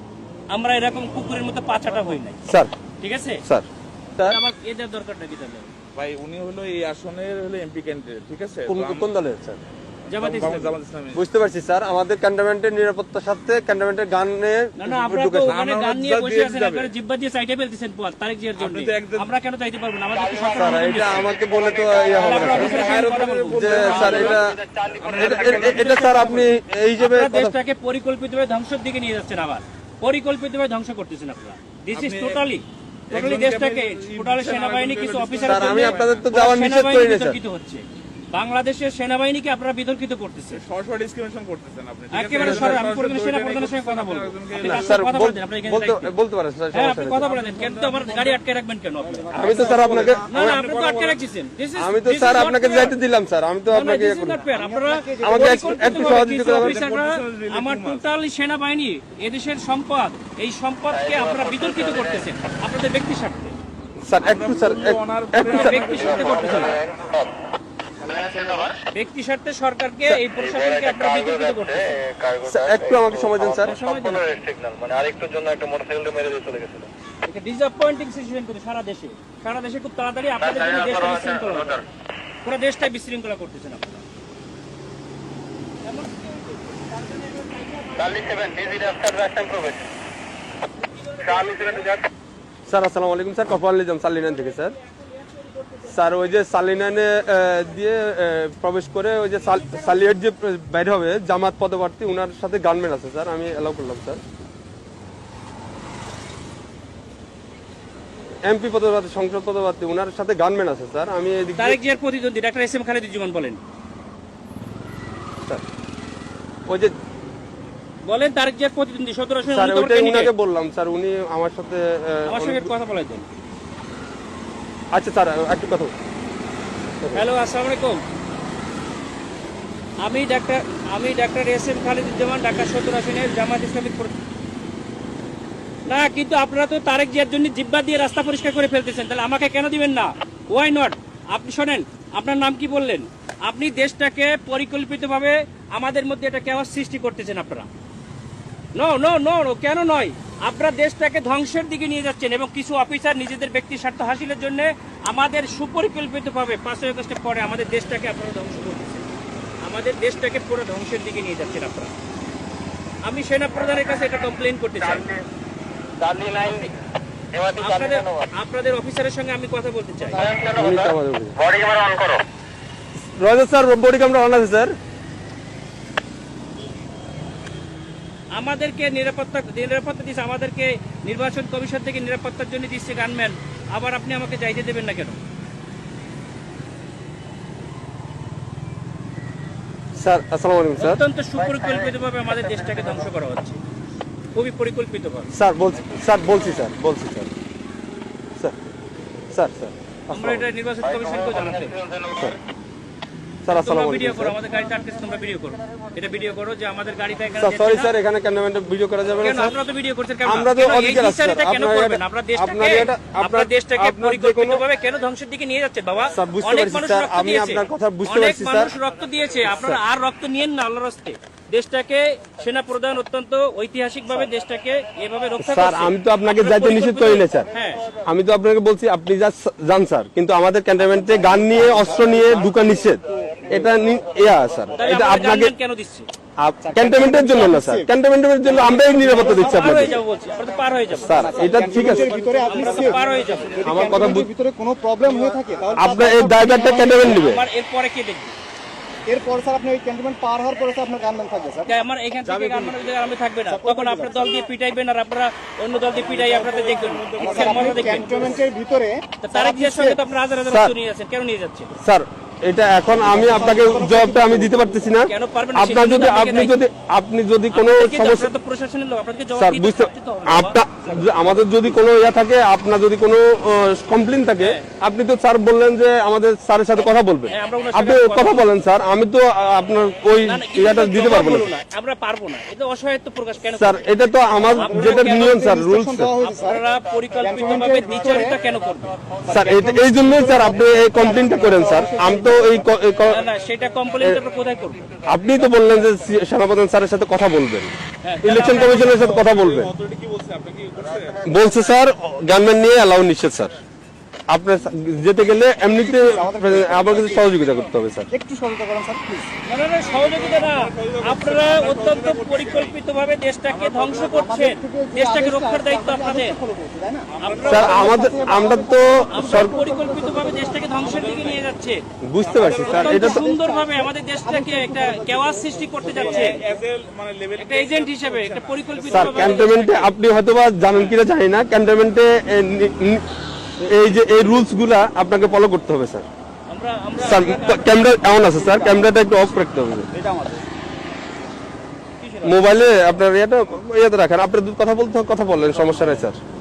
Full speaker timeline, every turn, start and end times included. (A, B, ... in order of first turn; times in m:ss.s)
0:00.5-0:02.4 A
0:02.4-0:02.7 B
0:03.0-0:03.4 A
0:03.4-0:04.4 B
0:04.2-0:05.7 A
0:05.9-0:09.1 C
0:08.7-0:09.6 B
0:10.1-0:10.7 A
0:10.1-0:11.2 C
0:11.1-0:15.6 B
0:14.8-0:21.3 A
0:15.4-0:16.9 C
0:18.6-0:19.3 C
0:20.5-0:24.6 B
0:21.5-0:22.4 D
0:22.2-0:24.4 A
0:22.5-0:26.2 C
0:24.5-0:24.8 D
0:25.1-0:27.6 B
0:25.2-0:26.5 A
0:27.0-0:40.6 A
0:31.9-0:32.4 C
0:33.1-0:36.3 C
0:35.4-0:37.4 B
0:40.5-0:45.0 C
0:42.1-0:46.1 A
0:42.4-0:42.8 B
0:44.6-0:47.2 B
0:46.7-0:49.6 A
0:47.2-0:48.4 C
0:49.0-0:50.6 E
0:49.3-0:50.6 B
0:49.7-0:51.2 C
0:50.3-0:52.9 A
0:51.8-0:54.4 B
0:53.7-1:03.5 A
0:54.4-0:56.2 E
0:55.2-0:56.8 B
0:56.4-0:58.1 C
1:00.9-1:02.2 D
1:04.0-1:06.7 B
1:04.2-1:06.6 C
1:05.4-1:06.8 A
1:06.1-1:07.3 D
1:08.0-1:08.6 C
1:08.1-1:08.7 D
1:08.9-1:12.0 A
1:10.4-1:16.9 D
1:12.4-1:13.7 B
1:13.6-1:14.2 A
1:17.2-1:21.8 A
1:20.4-1:21.8 D
1:22.4-1:24.0 A
1:25.8-1:28.5 A
1:28.0-1:29.9 D
1:31.2-1:31.8 A
1:31.2-1:32.0 D
1:32.6-1:34.8 B
1:35.0-1:36.0 A
1:35.8-1:44.2 B
1:48.4-1:51.8 B
1:51.6-1:53.6 A
1:56.7-1:56.9 B
1:58.0-2:00.3 A
1:59.5-2:02.7 B
2:02.3-2:03.3 A
2:04.9-2:05.9 B
2:07.0-2:07.2 B
2:07.1-2:08.0 A
2:10.0-2:14.1 A
2:15.9-2:27.7 A
2:28.7-2:39.1 A
2:39.6-2:41.9 A
2:43.0-2:45.1 A
2:44.8-2:45.2 D
2:46.0-2:46.7 D
2:47.3-2:48.3 D
2:47.6-2:50.3 A
2:50.2-2:52.2 D
2:50.4-2:51.4 B
2:53.2-2:54.7 B
2:58.3-3:05.2 A
3:10.0-3:11.0 B
3:10.8-3:13.6 A
3:14.3-3:15.3 A
3:15.3-3:17.3 B
3:19.3-3:20.5 B
3:20.1-3:21.8 A
3:21.3-3:22.2 D
3:23.4-3:24.4 B
3:23.5-3:27.9 A
3:27.4-3:29.6 B
3:29.2-3:47.8 A
3:30.2-3:34.6 B
3:36.1-3:38.7 B
3:39.4-3:39.8 B
3:45.4-3:47.5 B
3:48.0-3:55.5 B
3:51.0-3:52.7 E
3:53.3-3:53.6 E
3:54.7-3:56.0 A
3:56.4-4:00.0 B
3:56.6-3:57.9 E
3:58.4-4:00.0 E
3:59.1-4:03.6 A
4:00.9-4:02.1 B
4:00.9-4:07.1 E
4:02.4-4:03.8 C
4:03.6-4:04.3 B
4:05.8-4:07.4 B
4:06.9-4:08.3 A
4:09.1-4:11.8 E
4:11.6-4:18.4 A
4:12.4-4:12.9 C
4:13.4-4:14.3 E
4:15.9-4:18.4 C
4:17.2-4:20.0 E
4:19.2-4:21.7 A
4:20.4-4:20.7 B
4:21.8-4:28.3 B
4:23.0-4:24.8 E
4:25.1-4:26.6 A
4:27.5-4:31.3 A
4:29.3-4:41.5 B
4:34.4-4:34.6 A
4:37.3-4:38.5 A
4:40.2-4:43.9 A
4:43.5-4:46.1 B
4:44.4-4:46.6 E
4:44.6-4:45.4 A
4:46.2-4:48.9 A
4:47.2-4:48.4 E
4:49.2-4:52.7 E
4:49.3-4:53.2 B
4:53.1-4:54.9 A
4:55.0-4:59.7 B
4:58.0-4:59.1 A
4:58.5-5:01.3 C
5:01.2-5:03.6 B
5:04.3-5:08.1 B
5:05.7-5:07.3 E
5:08.1-5:09.3 E
5:09.4-5:16.4 A
5:09.8-5:12.8 C
5:13.5-5:14.3 C
5:13.9-5:21.2 E
5:17.1-5:17.8 C
5:17.2-5:18.1 A
5:17.5-5:19.6 B
5:18.9-5:21.8 A
5:20.7-5:21.5 C
5:22.0-5:23.3 B
5:22.2-5:22.7 C
5:22.3-5:26.6 E
5:22.5-5:26.4 A
5:25.8-5:29.5 C
5:27.4-5:29.9 A
5:28.9-5:33.0 B
5:33.6-5:36.0 B
5:36.5-5:37.9 A
5:37.0-5:39.9 B
5:38.2-5:38.9 E
5:39.9-5:40.4 E
5:42.0-5:42.5 A
5:42.2-5:46.2 B